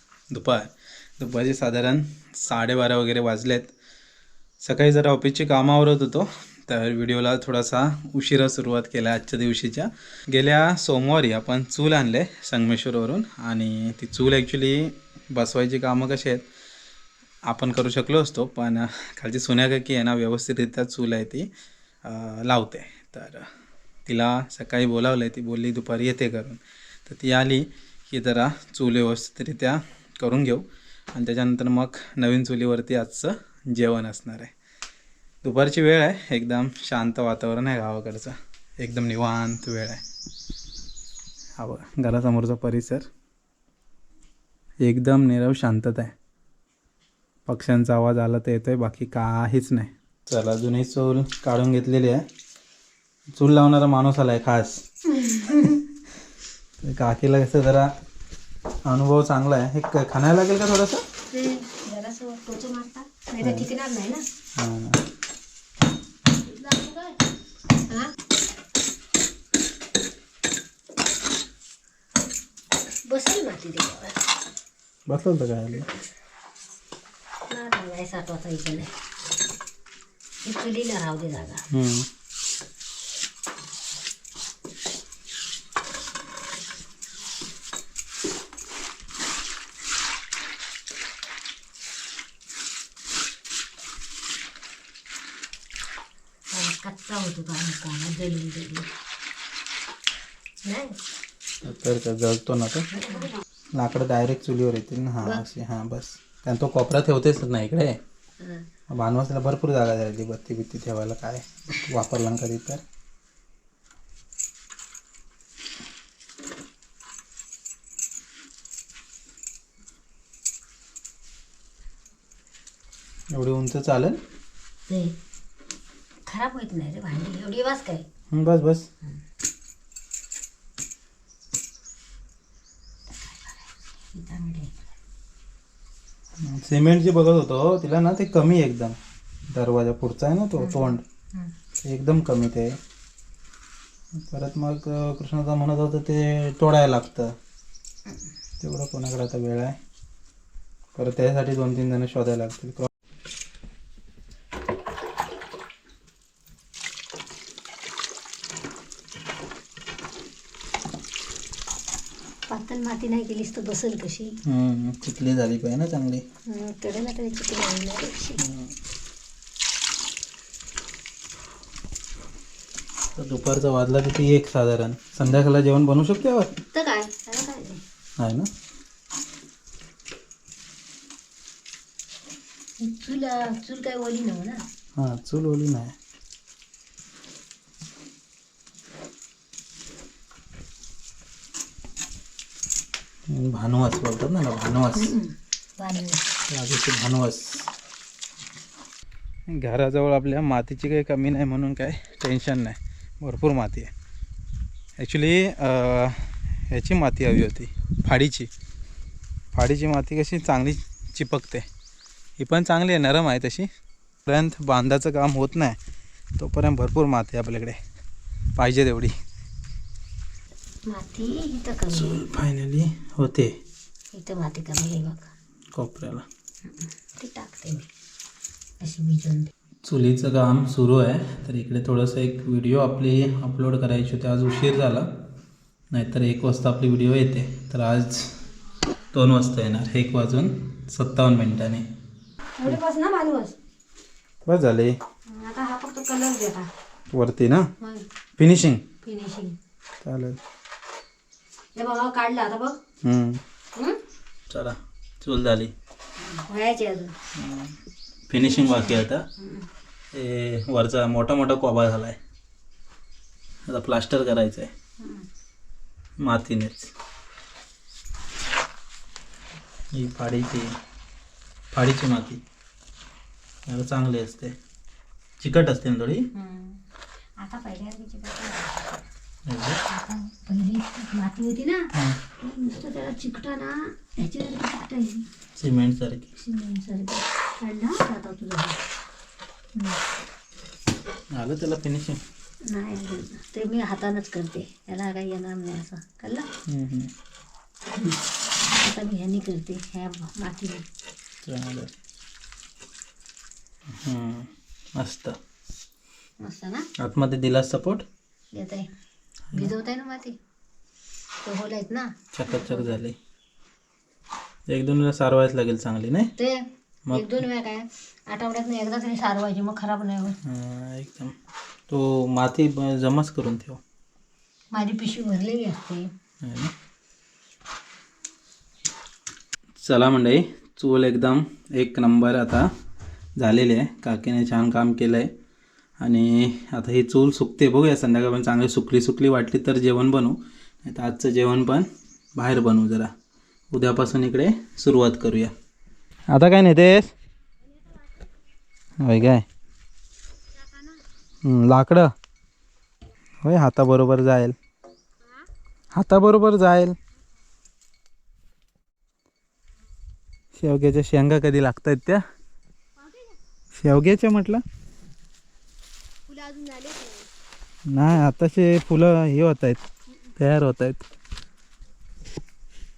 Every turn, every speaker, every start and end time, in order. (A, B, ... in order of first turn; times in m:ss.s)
0:00.3-0:03.7 A
0:04.6-0:16.4 A
0:17.5-0:21.5 A
0:22.0-0:23.5 A
0:24.1-0:34.5 A
0:35.4-0:40.0 A
0:41.6-0:43.1 A
0:44.8-0:46.1 A
0:47.5-0:52.3 A
0:53.4-0:55.9 A
0:55.2-0:55.5 B
0:56.8-0:57.9 A
0:58.9-1:01.0 A
1:01.3-1:04.3 B
1:03.4-1:03.7 A
1:04.6-1:05.0 A
1:06.4-1:07.2 B
1:07.9-1:08.1 B
1:13.0-1:14.2 B
1:15.1-1:15.9 A
1:17.5-1:18.9 B
1:20.4-1:21.6 B
1:21.7-1:22.1 A
1:36.5-1:38.9 B
1:40.6-1:41.0 B
1:41.6-1:42.9 A
1:42.9-1:43.3 B
1:43.8-1:48.0 A
1:48.4-1:48.7 B
1:48.9-1:52.8 A
2:03.3-2:04.2 A
2:04.9-2:05.2 B
2:06.3-2:08.1 B
2:08.3-2:08.9 A
2:13.1-2:14.7 B
2:16.4-2:19.0 A
2:19.5-2:21.0 A
2:20.6-2:21.5 B
2:21.8-2:22.8 A
2:24.2-2:27.4 A
2:28.6-2:29.8 A
2:31.0-2:32.9 A
2:42.5-2:44.4 B
2:44.4-2:46.2 A
2:46.5-2:48.4 B
2:48.4-2:48.7 A
2:53.2-2:56.5 A
2:56.7-2:57.8 B
2:58.2-2:58.5 A
3:02.8-3:04.6 B
3:05.0-3:06.0 A
3:13.3-3:15.1 A
3:15.0-3:16.3 B
3:16.5-3:17.7 A
3:19.6-3:23.9 A
3:25.0-3:28.5 A
3:29.5-3:31.6 A
3:32.4-3:33.7 A
3:34.3-3:35.8 A
3:36.4-3:37.8 A
3:38.6-3:39.2 A
3:40.9-3:42.2 B
3:41.9-3:43.6 A
3:44.1-3:45.3 B
3:45.7-3:46.3 A
3:46.7-3:47.9 B
3:48.8-3:49.5 B
3:49.8-3:55.1 A
3:55.9-3:58.3 A
3:59.1-4:01.9 A
4:02.6-4:03.6 B
4:04.4-4:05.0 A
4:05.3-4:06.7 B
4:07.1-4:07.7 A
4:07.8-4:08.1 B
4:08.4-4:08.8 A
4:09.0-4:09.6 B
4:10.0-4:10.4 A
4:11.8-4:12.8 B
4:13.0-4:13.4 A
4:13.8-4:14.0 B
4:14.5-4:15.7 A
4:16.2-4:17.2 B
4:17.4-4:17.8 A
4:18.3-4:19.3 A
4:18.4-4:19.7 B
4:20.1-4:22.2 A
4:23.7-4:24.7 A
4:25.0-4:25.3 B
4:26.2-4:26.9 A
4:29.9-4:30.8 A
4:31.7-4:32.4 A
4:33.7-4:34.6 A
4:35.4-4:36.3 A
4:36.3-4:36.8 B
4:37.4-4:39.0 B
4:39.5-4:39.8 A
4:39.8-4:45.3 B
4:41.9-4:42.2 A
4:45.6-4:46.3 A
4:46.4-4:48.8 B
4:49.8-4:50.0 B
4:51.4-4:52.2 A
4:52.6-4:56.5 B
4:56.7-4:57.1 A
4:58.0-5:00.8 B
5:01.4-5:02.0 A
5:04.0-5:05.4 A
5:06.4-5:06.9 B
5:07.0-5:08.0 A
5:08.5-5:08.9 B
5:09.5-5:10.4 B
5:11.4-5:12.9 B
5:12.3-5:13.2 A
5:14.7-5:16.3 A
5:16.4-5:20.4 B
5:17.1-5:17.4 A
5:20.4-5:21.4 A
5:21.9-5:23.8 A
5:24.7-5:26.1 B
5:26.4-5:26.7 A
5:29.8-5:32.7 A
5:33.4-5:35.3 A
5:36.0-5:43.1 A
5:43.7-5:45.5 A
5:46.3-5:47.1 A
5:49.0-5:49.4 A
5:51.4-5:52.1 A
5:53.4-5:54.6 A
5:55.9-5:57.0 A
6:00.6-6:02.2 A
6:03.7-6:04.6 A
6:06.3-6:07.3 B
6:07.9-6:09.8 A
6:10.4-6:11.1 A